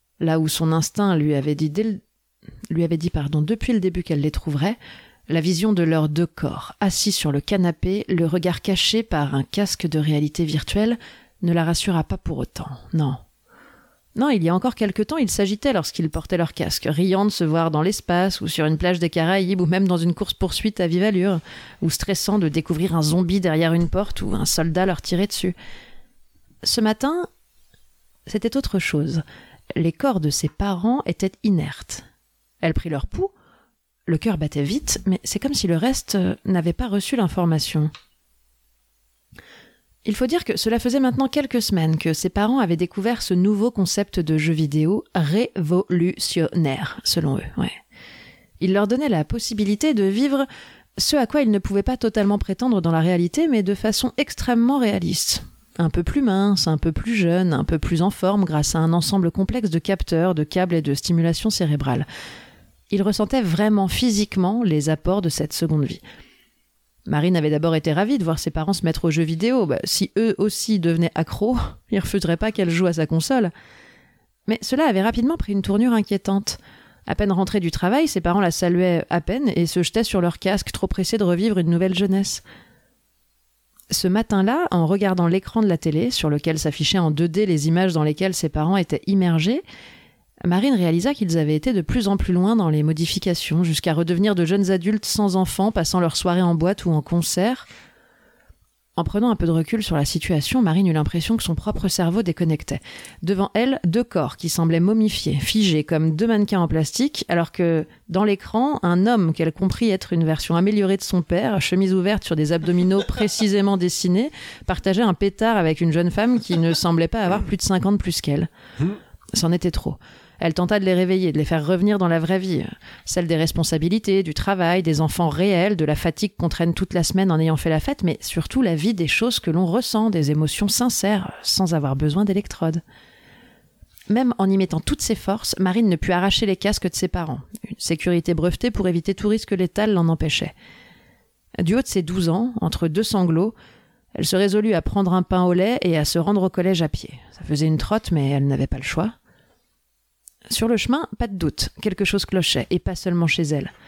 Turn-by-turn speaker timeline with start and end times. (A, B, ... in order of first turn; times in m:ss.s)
0:00.2-0:02.0 A
0:02.7-0:04.8 A
0:05.3-0:13.2 A
0:14.2-0:25.6 A
0:26.6-0:27.3 A
0:28.3-0:32.0 A
0:32.6-0:33.3 A
0:34.1-0:37.9 A
0:40.0-0:47.8 A
0:48.6-0:50.5 A
0:51.0-1:02.1 A
1:02.9-1:06.0 A
1:07.1-1:13.5 A
1:14.5-1:22.4 A
1:23.9-1:29.6 A
1:30.4-1:37.7 A
1:39.0-1:58.5 A
1:59.3-2:12.8 A
2:14.1-2:20.5 A
2:21.6-2:23.6 A
2:24.2-2:29.2 A
2:30.5-2:33.7 A